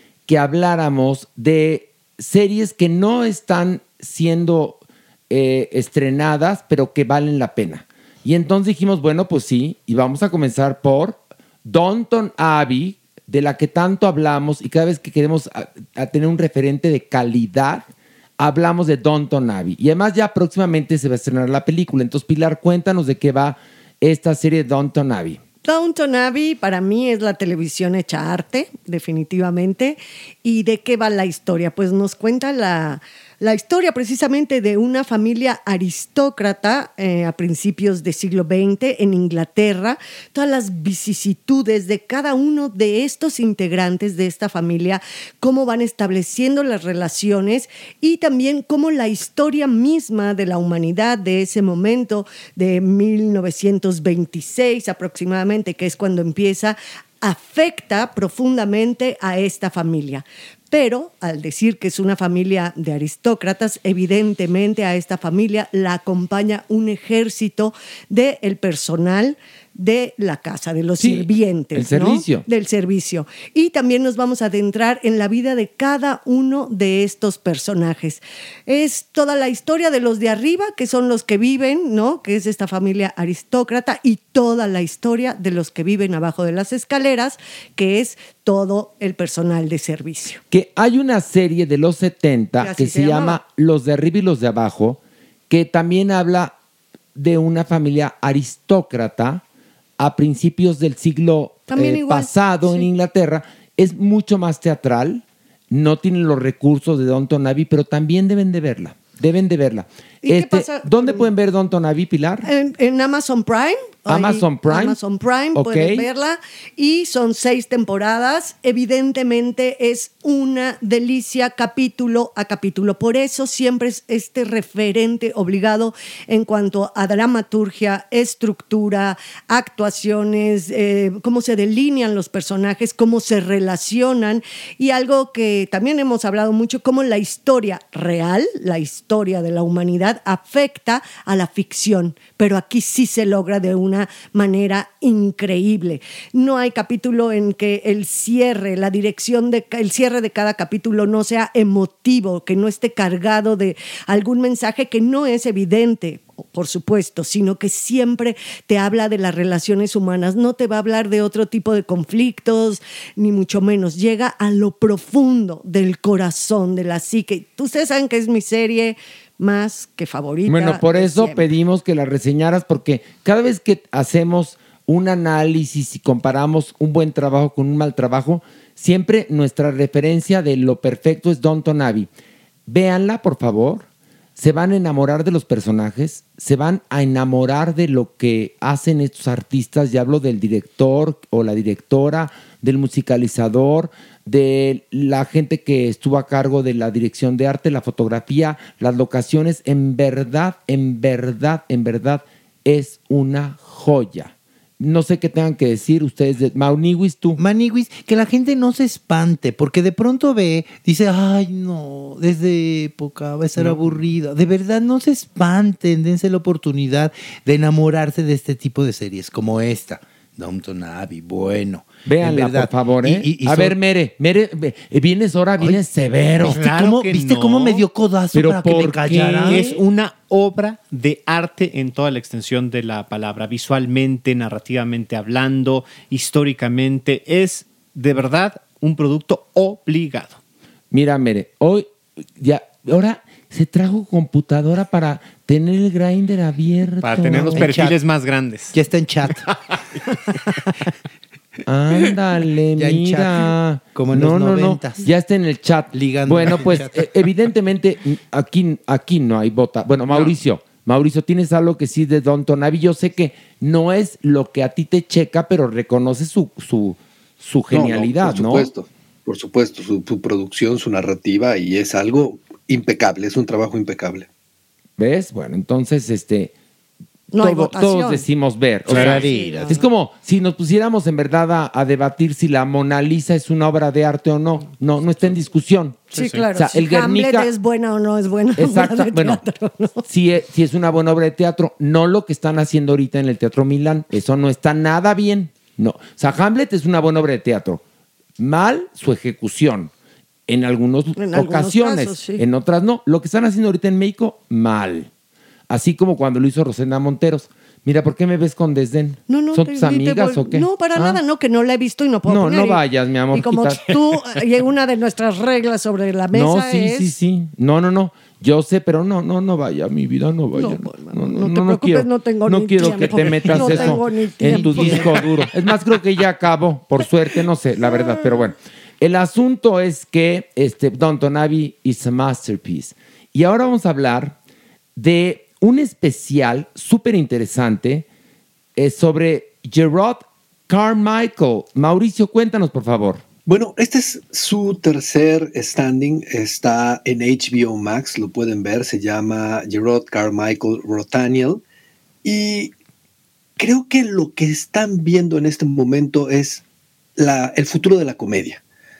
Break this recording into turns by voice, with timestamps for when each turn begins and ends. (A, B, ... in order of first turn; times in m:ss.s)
0:00.3-0:17.9 A
0:18.4-0:25.4 A
0:25.6-1:30.4 B
1:11.0-1:12.5 A
1:30.5-1:36.5 A
1:32.6-1:33.4 B
1:37.2-1:39.4 A
1:40.0-1:52.5 A
1:41.7-1:42.9 B
1:50.2-1:51.3 B
1:52.4-2:51.5 B
1:54.1-1:55.0 A
1:55.6-1:56.1 A
2:50.5-3:02.1 A
3:02.7-3:03.8 A
3:04.4-3:27.4 A
3:27.4-3:43.8 C
3:42.0-3:46.6 A
3:46.4-3:49.7 C
3:46.4-3:47.9 D
3:48.3-3:49.8 A
3:49.5-4:00.4 D
4:00.9-4:01.9 A
4:02.4-4:07.8 A
4:07.0-4:08.8 D
4:07.3-4:08.0 C
4:08.7-4:09.5 C
4:09.5-4:09.8 D
4:11.7-4:28.7 A
4:12.8-4:15.1 C
4:15.9-4:17.1 C
4:27.7-4:34.3 E
4:35.0-4:36.5 A
4:37.3-4:38.2 B
4:37.4-4:47.5 A
4:38.9-4:39.8 C
4:38.9-4:39.3 D
4:39.4-4:39.8 B
4:46.1-4:46.4 D
4:46.1-4:50.1 B
4:48.6-4:49.4 A
4:50.1-4:57.8 A
4:58.4-4:59.9 A
5:00.5-5:05.1 A
5:01.2-5:02.4 B
5:05.7-5:11.2 A
5:09.3-5:17.2 B
5:12.3-5:14.0 A
5:16.3-5:34.4 A
5:20.5-5:25.2 B
5:23.4-5:25.3 C
5:35.0-5:38.1 A
5:38.8-5:43.2 A
5:43.5-5:51.6 E
5:52.2-5:52.7 E
5:53.6-5:56.6 E
5:57.2-5:58.6 E